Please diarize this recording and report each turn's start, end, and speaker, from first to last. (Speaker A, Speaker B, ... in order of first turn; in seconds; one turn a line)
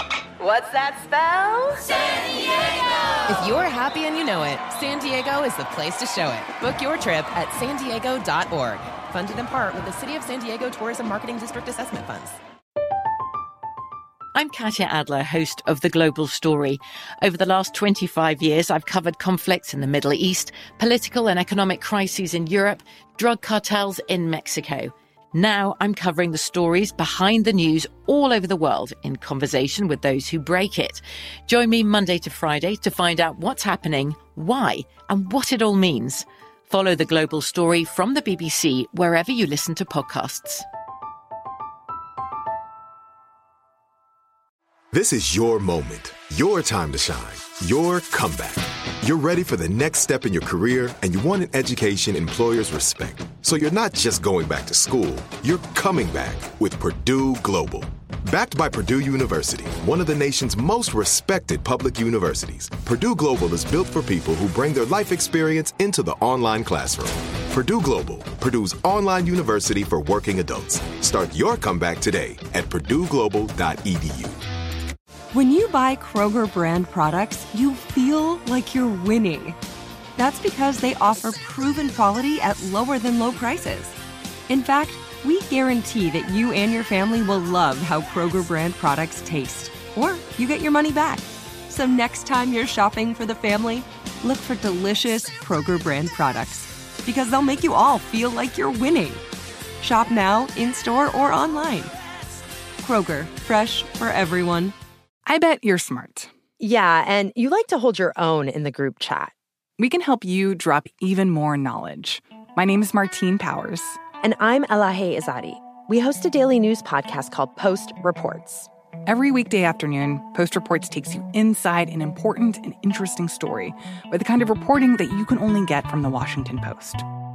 Speaker A: 0.4-1.9
Speaker A: 3.3-12.4
Speaker B: 14.3-40.7
Speaker C: 44.9-74.4
Speaker D: 75.3-79.6
Speaker D: 80.2-84.0
Speaker D: 84.5-99.2
Speaker D: 99.8-101.9
Speaker D: 102.8-104.8
Speaker E: 105.3-106.3
Speaker F: 106.6-109.3
Speaker E: 109.8-114.0
Speaker F: 114.2-118.7
Speaker E: 119.1-127.0